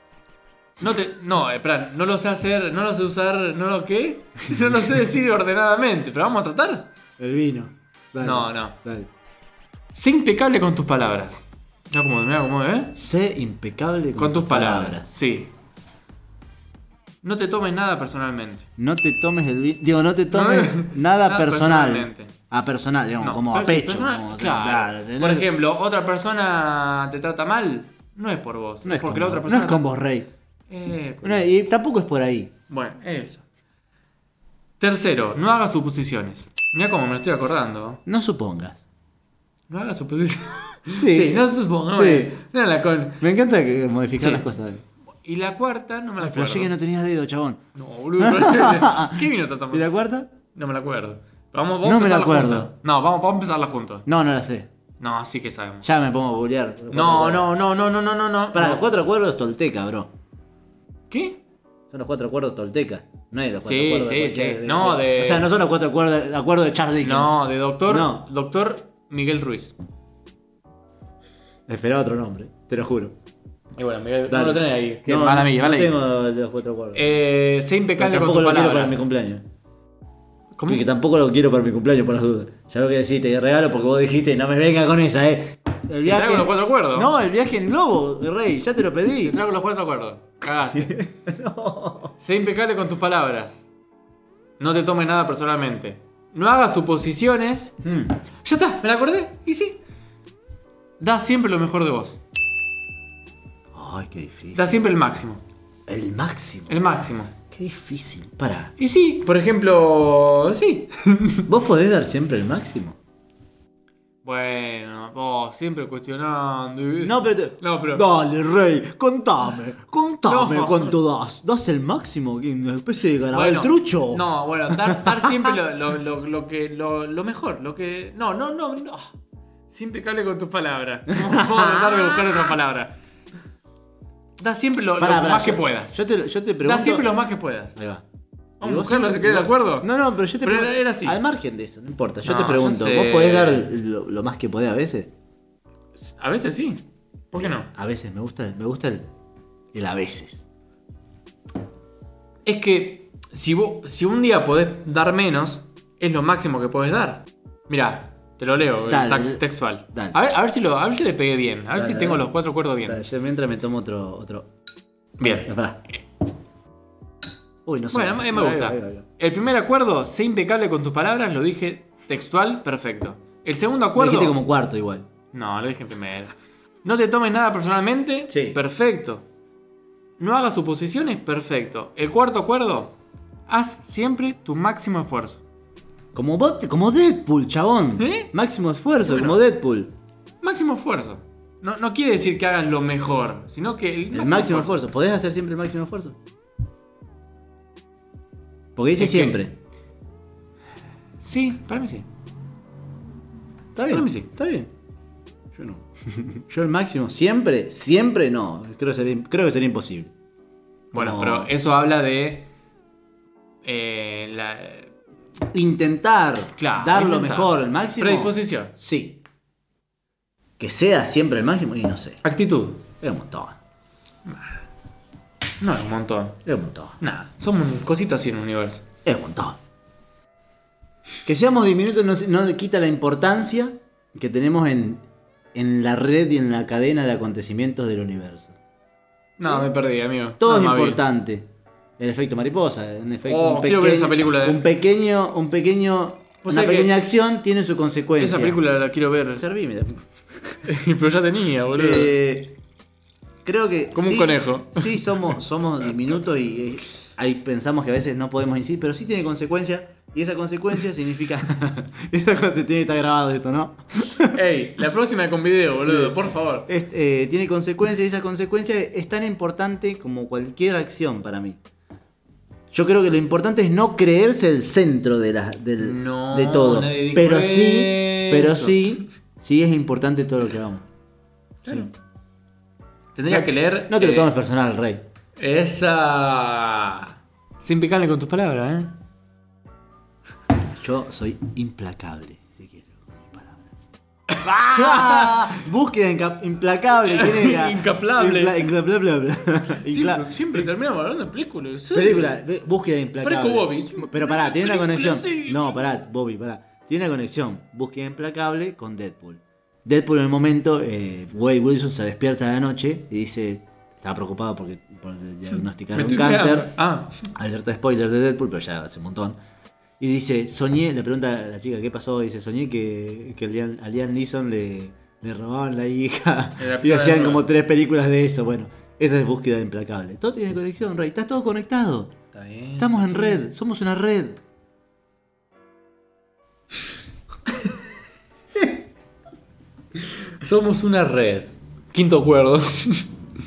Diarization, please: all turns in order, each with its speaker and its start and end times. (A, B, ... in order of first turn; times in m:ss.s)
0:00.8-0:06.9 A
0:07.2-0:09.1 B
0:08.2-0:08.8 A
0:09.9-0:13.0 A
0:12.9-0:15.1 B
0:14.2-0:15.5 A
0:17.2-0:18.7 A
0:18.8-0:25.4 B
0:20.3-0:22.3 A
0:23.2-0:29.8 A
0:28.8-0:30.3 B
0:30.7-0:31.5 A
0:31.2-0:32.5 B
0:32.7-0:33.4 A
0:34.8-0:38.0 A
0:38.0-0:38.8 B
0:39.7-0:43.2 A
0:40.9-0:42.4 B
0:43.2-0:44.8 B
0:44.2-0:44.5 A
0:45.2-0:46.7 A
0:46.2-0:47.6 B
0:47.7-0:49.9 A
0:48.2-0:50.3 B
0:50.5-0:54.0 A
0:51.8-0:52.7 B
0:54.0-0:54.7 B
0:55.0-0:55.8 A
0:55.8-0:57.5 B
0:56.9-0:58.8 A
0:58.5-1:00.1 B
1:01.1-1:01.4 A
1:01.9-1:08.2 B
1:03.6-1:05.5 A
1:07.0-1:09.7 A
1:11.7-1:13.1 B
1:13.8-1:15.9 A
1:14.3-1:17.2 B
1:16.9-1:19.0 A
1:18.0-1:19.4 B
1:20.5-1:20.8 A
1:20.7-1:29.4 B
1:26.0-1:27.1 A
1:29.2-1:31.0 A
1:30.7-1:32.1 B
1:32.2-1:33.6 A
1:34.6-1:37.7 A
1:37.8-1:38.2 B
1:38.4-1:39.8 A
1:41.0-1:42.2 A
1:43.7-1:44.8 B
1:44.5-1:45.4 A
1:45.9-1:46.8 B
1:46.7-1:47.3 A
1:47.5-1:48.7 B
1:48.8-1:51.4 A
1:51.4-1:53.0 B
1:54.2-1:58.0 A
1:57.0-2:05.6 B
2:00.2-2:01.0 A
2:03.3-2:09.1 A
2:09.7-2:12.9 A
2:11.1-2:12.5 B
2:14.4-2:16.0 A
2:15.0-2:17.1 B
2:16.6-2:17.8 A
2:17.8-2:18.0 B
2:18.6-2:19.9 A
2:18.6-2:25.1 B
2:20.4-2:21.2 A
2:22.2-2:23.7 A
2:26.0-2:27.7 A
2:27.3-2:29.1 B
2:29.7-2:30.4 B
2:32.4-2:43.0 A
2:38.9-2:40.2 B
2:41.7-2:42.3 B
2:42.8-2:44.5 B
2:45.2-2:45.5 A
2:45.2-2:45.8 B
2:47.6-2:49.0 B
2:47.9-2:54.4 A
2:54.0-2:55.1 B
2:55.3-2:56.3 A
2:56.8-2:59.2 A
2:58.3-2:58.6 B
3:00.2-3:02.9 A
3:03.5-3:05.4 A
3:06.1-3:09.9 B
3:08.0-3:08.3 A
3:09.1-3:09.4 A
3:10.4-3:14.8 A
3:14.1-3:16.2 B
3:18.8-3:19.6 B
3:19.0-3:19.4 A
3:21.2-3:22.0 A
3:23.8-3:24.7 B
3:23.9-3:24.3 A
3:25.6-3:30.1 B
3:30.9-3:32.5 A
3:30.9-3:31.5 B
3:33.6-3:34.9 A
3:35.5-3:39.2 B
3:36.6-3:38.7 A
3:40.6-3:42.2 B
3:42.2-3:42.8 A
3:43.0-3:43.6 B
3:45.6-3:46.4 A
3:46.4-3:47.0 B
3:47.0-3:48.8 A
3:49.0-3:49.6 B
3:51.2-3:58.5 B
3:59.4-4:01.0 A
4:00.4-4:01.5 B
4:02.0-4:08.6 B
4:03.2-4:04.6 A
4:06.4-4:06.9 A
4:08.2-4:09.4 A
4:09.3-4:10.6 B
4:10.6-4:12.1 A
4:11.8-4:12.6 B
4:13.4-4:24.3 B
4:13.9-4:15.0 A
4:24.2-4:26.7 A
4:25.9-4:31.6 B
4:32.7-4:40.8 B
4:35.8-4:38.8 A
4:41.6-4:41.9 A
4:43.1-4:44.3 A
4:43.3-4:45.0 B
4:45.4-4:49.0 A
4:50.8-4:53.8 B
4:54.3-4:55.4 A
4:54.4-5:00.7 B
4:57.0-4:58.7 A
4:59.9-5:02.4 A
5:01.9-5:16.7 B
5:03.2-5:05.8 A
5:15.9-5:17.2 A
5:17.3-5:19.4 B
5:20.0-5:32.1 B
5:26.6-5:27.4 A
5:32.3-5:33.4 A
5:32.8-5:34.4 B
5:40.4-5:43.1 A